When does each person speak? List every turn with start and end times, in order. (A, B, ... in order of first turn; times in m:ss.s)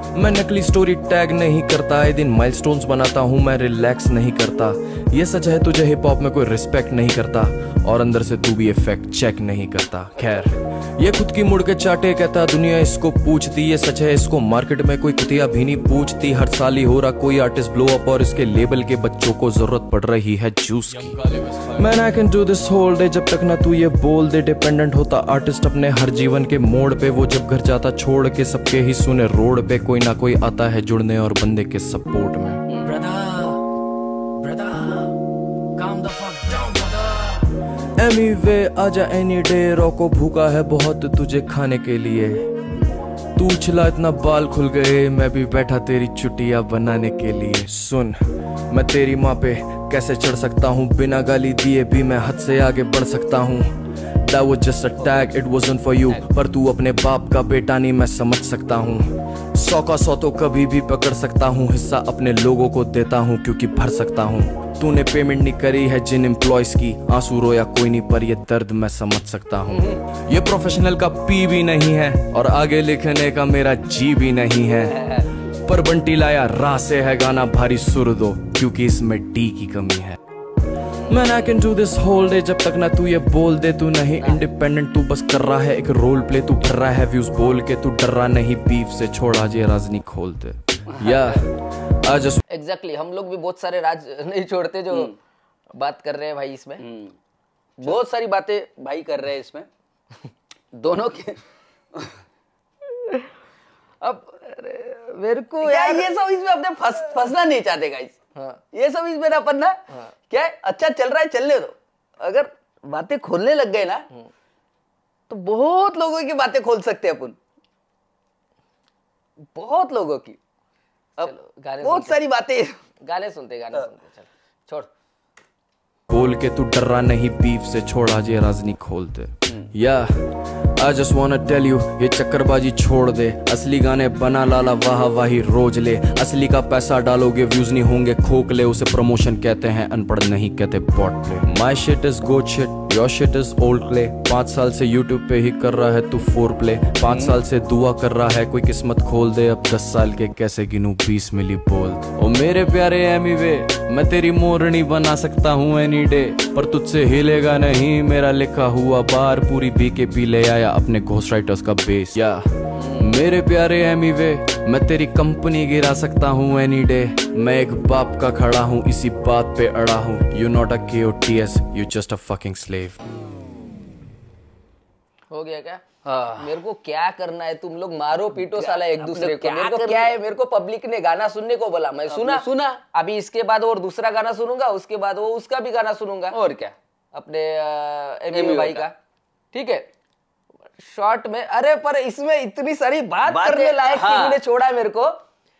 0:00.1-0:33.6 A
0:32.7-0:33.0 B
0:34.4-0:35.2 A
0:35.8-0:42.5 A
0:43.4-0:48.2 A
0:48.7-1:15.1 A
1:14.7-1:15.3 B
1:15.6-1:20.2 A
1:21.0-1:21.5 B
1:21.1-1:32.4 A
1:24.2-1:24.5 C
1:30.9-1:31.4 B
1:32.5-1:35.1 C
1:35.7-1:36.8 C
1:36.8-1:37.2 B
1:37.8-1:39.7 B
1:40.7-1:41.4 B
1:44.0-1:48.2 B
1:45.6-1:46.1 C
1:48.3-1:48.6 C
1:48.7-1:54.1 B
1:55.3-1:57.4 B
1:59.5-2:00.4 B
2:01.2-2:02.8 B
2:01.2-2:02.2 C
2:03.0-2:04.9 C
2:06.1-2:53.0 A
2:27.1-2:27.4 B
2:42.8-2:43.2 B
2:55.3-2:55.8 C
2:56.0-2:56.6 B
2:56.4-3:06.4 C
2:58.3-3:00.2 B
3:02.1-3:02.8 B
3:06.3-3:06.7 B
3:07.1-3:08.9 C
3:08.3-3:08.8 B
3:09.5-3:09.9 C
3:10.8-3:15.2 C
3:13.2-3:14.4 B